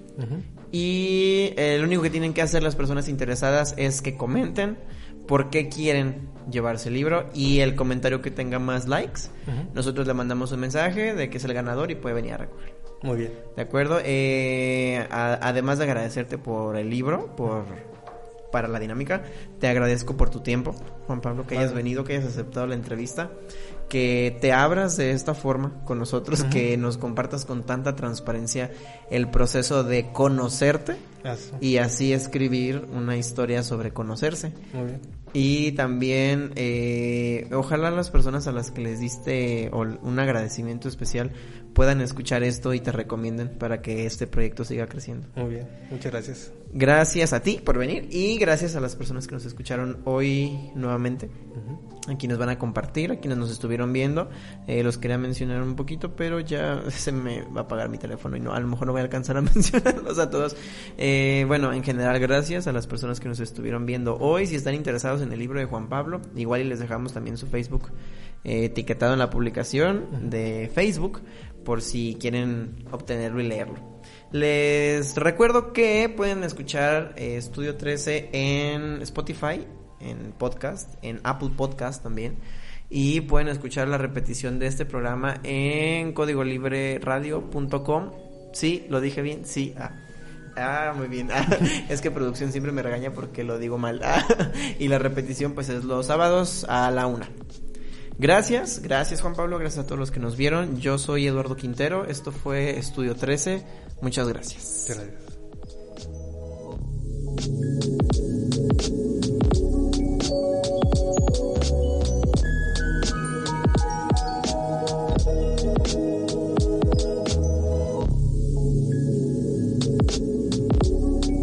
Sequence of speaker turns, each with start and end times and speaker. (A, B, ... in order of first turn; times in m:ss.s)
0:00.2-0:00.4 A
0:00.7-0:12.7 B
0:13.0-0:13.4 A
0:13.5-0:17.9 B
0:18.5-0:23.3 B
0:21.5-0:21.8 A
0:23.9-0:31.0 B
0:26.4-0:26.6 A
0:31.2-0:31.6 A
0:31.6-0:34.6 B
0:34.7-0:35.0 A
0:35.3-0:45.3 B
0:45.3-0:46.5 A
0:46.7-0:51.3 B
0:51.5-0:51.8 A
0:52.0-1:07.9 B
1:08.4-1:22.4 B
1:22.9-1:30.0 B
1:30.6-1:37.3 B
1:38.2-1:45.0 B
1:44.9-1:45.3 A